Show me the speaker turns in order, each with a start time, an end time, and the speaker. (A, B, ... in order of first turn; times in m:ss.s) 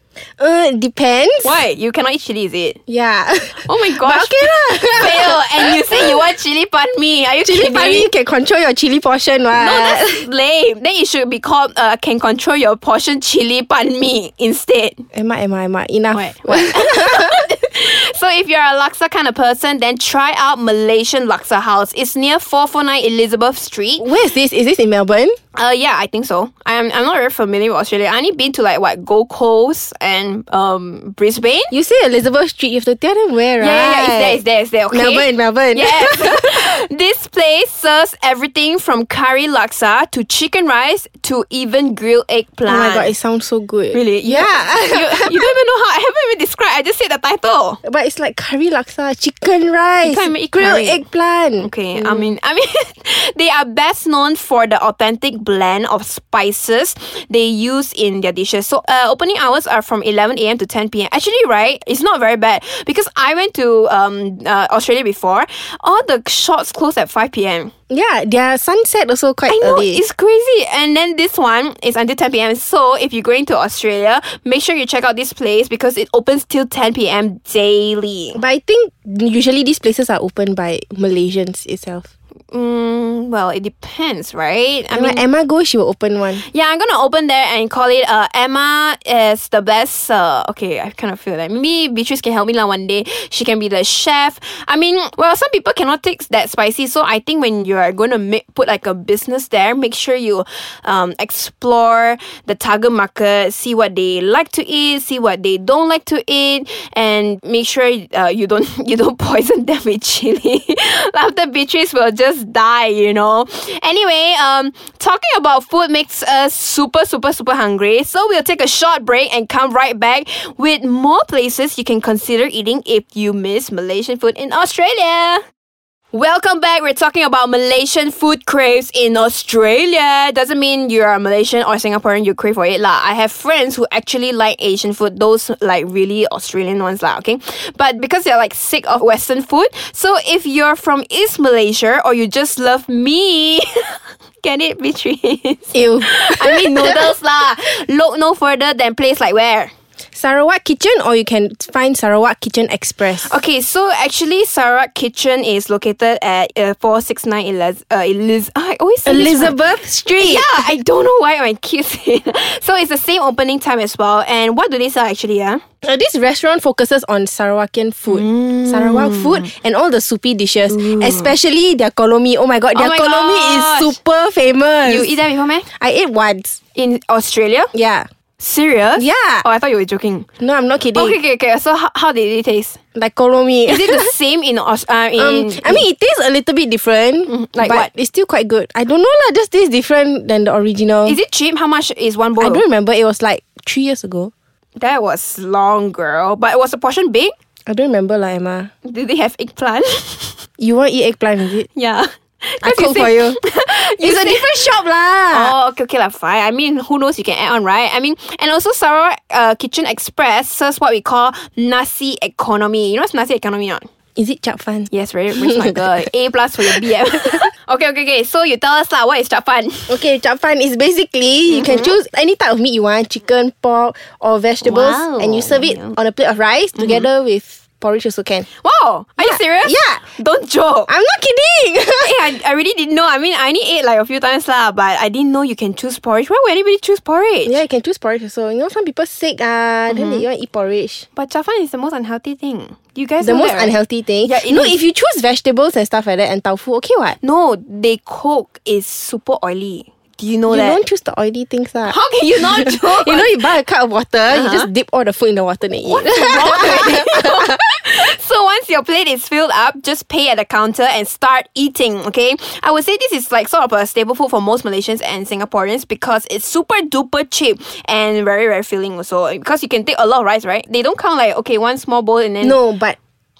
0:00.4-0:01.6 A
0:01.4-0:02.8 B
0:02.9-0:06.2 A
0:03.6-0:08.1 B
0:07.4-0:10.2 A
0:09.6-0:15.0 B
0:15.1-0:17.4 A
0:16.1-0:24.1 B
0:24.0-0:25.4 A
0:25.6-0:31.7 B
0:31.7-0:36.8 A
0:33.6-0:43.1 B
0:42.7-0:45.5 A
0:43.9-0:47.8 B
0:47.8-0:52.3 A
0:50.0-0:51.0 B
0:51.6-1:07.7 B
1:07.9-1:10.0 A
1:09.5-1:18.4 B
1:18.4-1:22.1 A
1:22.5-1:25.2 B
1:24.9-1:26.4 A
1:26.4-2:05.4 B
2:06.1-2:29.7 B
2:25.7-2:27.1 A
2:30.2-2:33.3 A
2:33.2-2:39.6 B
2:39.0-2:40.7 A
2:40.1-2:45.6 B
2:45.8-2:55.2 A
2:48.1-2:49.5 B
2:50.7-2:51.3 B
2:52.7-2:54.0 B
2:54.8-2:55.7 B
2:55.8-2:56.6 A
2:56.8-2:57.7 B
2:57.7-2:58.1 A
2:58.4-3:00.3 B
2:59.0-2:59.5 A
3:00.4-3:01.2 A
3:00.9-3:02.8 B
3:03.0-3:04.1 A
3:03.7-3:05.8 B
3:05.2-3:11.2 A
3:07.3-3:07.9 B
3:11.1-3:12.6 B
3:12.4-3:14.3 A
3:14.8-3:17.3 B
3:17.7-3:18.7 A
3:18.8-3:20.4 B
3:20.6-3:21.7 A
3:21.8-3:24.7 B
3:22.6-3:23.4 A
3:24.0-3:25.6 A
3:25.3-3:33.9 B
3:34.2-3:35.9 A
3:34.9-3:40.0 B
3:36.6-3:37.5 A
3:39.9-3:48.5 A
3:41.5-3:42.0 B
3:44.6-3:46.0 B
3:46.8-3:47.1 B
3:48.6-3:50.9 B
3:49.2-3:50.0 A
3:50.9-3:52.3 A
3:52.0-3:57.6 B
3:57.5-4:01.0 A
3:59.9-4:00.3 B
4:01.2-4:04.8 B
4:03.2-4:07.2 A
4:07.2-4:10.8 B
4:10.5-4:17.6 A
4:11.9-4:13.5 B
4:14.3-4:14.7 B
4:15.9-4:32.6 B
4:32.4-4:33.0 A